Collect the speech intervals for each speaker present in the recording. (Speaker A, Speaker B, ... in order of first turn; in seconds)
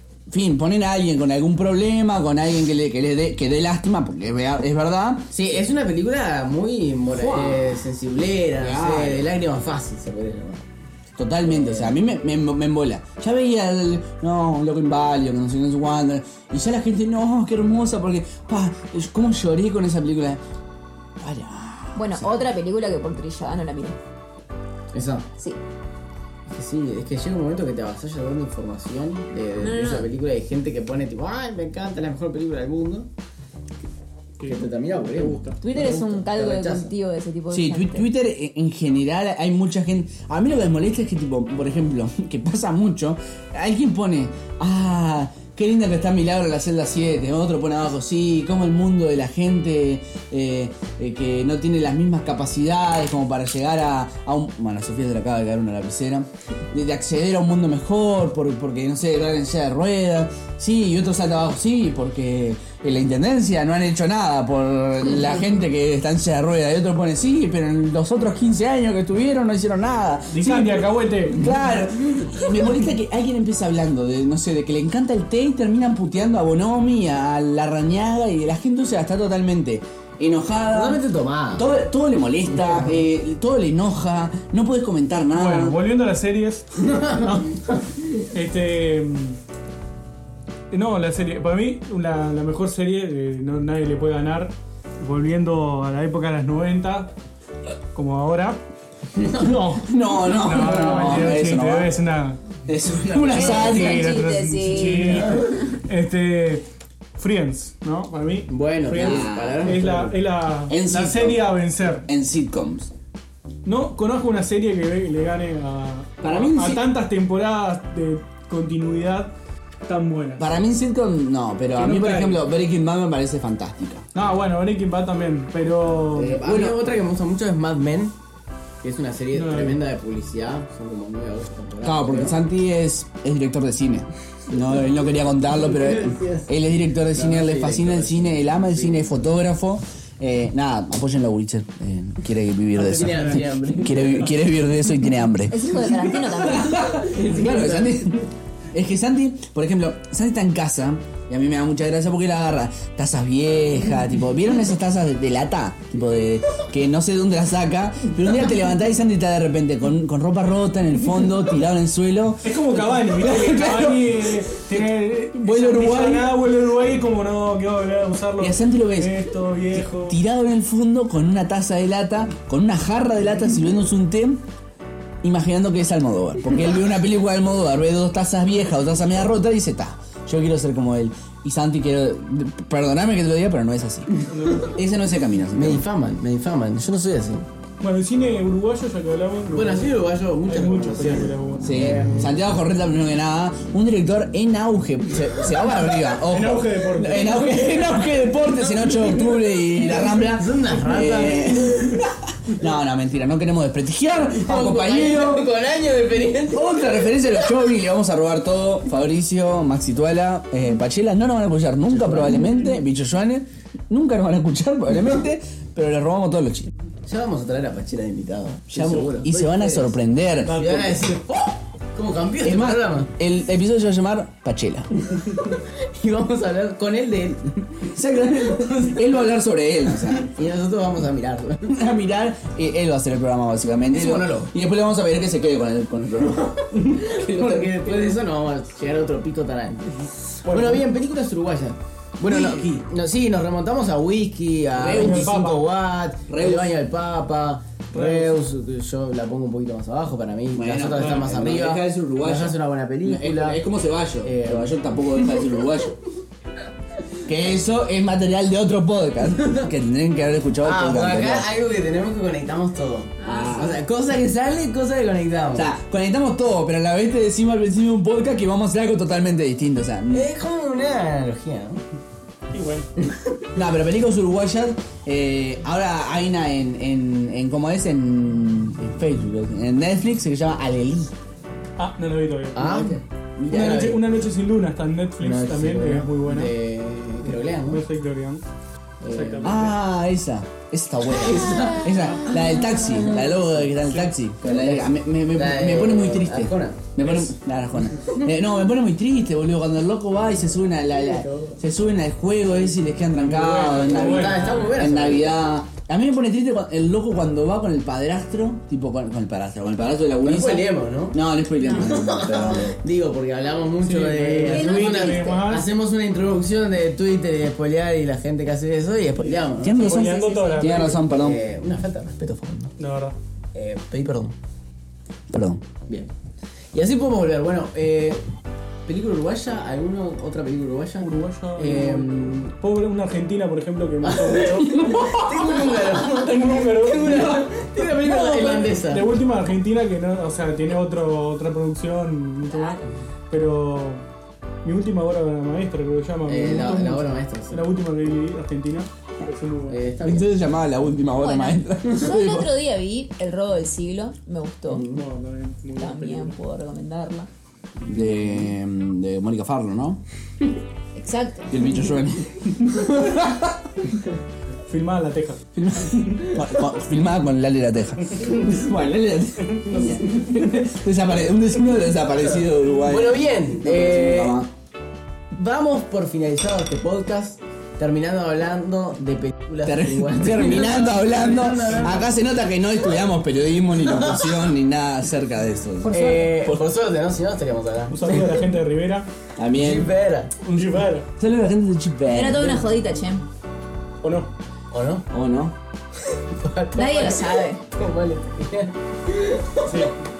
Speaker A: 0.3-5.3, 7.1-7.8, 8.6-9.2, 11.2-20.4, 21.2-22.4, 37.5-81.0, 81.5-85.8, 99.8-101.9, 102.7-104.1, 108.9-109.7, 110.7-111.5, 112.0-112.9, 116.2-116.8, 120.4-124.0, 126.2-126.8, 131.8-145.6, 146.4-162.5, 163.1-164.1, 165.4-166.3, 168.4-169.1, 169.7-174.4, 175.2-184.1, 184.7-185.8, 191.6-205.5, 206.5-216.7, 218.7-220.6, 222.4-224.9, 227.9-230.3, 231.7-236.6, 242.3-242.8, 244.8-245.3, 246.3-246.8, 250.5-256.0, 257.2-261.5, 263.2-263.8, 265.5-270.3, 273.5-281.1, 289.4-312.8, 319.6-321.4, 325.3-325.6, 334.7-335.5, 350.0-352.5, 357.8-360.0, 361.5-363.7, 365.5-374.5, 379.6-386.6, 389.4-389.9, 390.5-392.6, 395.1-395.5
Speaker B: 5.3-10.6, 11.4-11.9, 24.9-25.2, 26.5-33.1, 34.4-36.9, 80.7-81.7, 82.5-83.0, 86.8-87.4, 99.2-99.5, 100.7-101.2, 108.5-110.2, 126.4-128.1, 128.8-132.4, 135.6-136.5, 137.1-139.2, 142.7-144.3, 146.6-148.0, 185.5-187.4, 189.5-192.1, 200.2-202.0, 204.3-207.5, 211.9-212.4, 217.0-223.1, 225.1-227.9, 228.6-229.0, 230.1-231.8, 233.9-234.5, 236.5-253.6, 254.2-255.4, 260.6-265.7, 270.1-271.8, 282.5-284.0, 285.2-287.8, 289.0-289.7, 291.1-293.5, 294.4-296.9, 300.9-301.6, 303.8-305.4, 310.2-320.0, 321.0-322.7, 323.5-324.3, 326.7-328.2, 328.9-332.5, 334.0-339.1, 346.2-347.7, 349.7-350.4, 354.7-355.0, 372.8-374.4, 375.3-382.2, 383.8-384.3, 385.9-388.5, 389.5-390.4, 394.7-395.1, 396.3-399.8
Speaker C: 21.9-24.0, 29.6-30.1, 35.6-38.1, 103.3-105.6, 145.5-146.9, 263.3-263.5, 314.5-315.2, 319.9-320.8, 342.5-342.8, 351.1-354.9, 355.8-357.3, 360.9-361.5, 392.1-393.2, 396.8-397.6
Speaker D: 34.4-35.6, 70.3-71.5, 85.3-89.4, 90.7-97.1, 97.9-98.6, 99.3-102.4, 103.1-106.6, 107.2-112.1, 113.6-119.3, 119.9-120.5, 121.7-122.4, 124.1-126.4, 129.3-129.8, 143.1-143.4, 162.4-170.2, 184.3-184.8, 187.8-192.1, 196.2-197.8, 220.4-221.0, 240.4-240.8, 244.9-245.6, 247.9-248.4, 250.9-251.2, 272.5-272.9, 281.8-283.0, 283.5-286.5, 287.6-288.4, 289.1-289.8, 303.2-304.7, 313.8-315.7, 319.3-321.0, 322.8-323.1, 331.0-334.8, 335.9-344.0, 344.6-349.8, 354.8-356.4, 364.7-365.4, 387.9-389.1, 390.4-391.1, 394.0-394.3, 399.6-399.9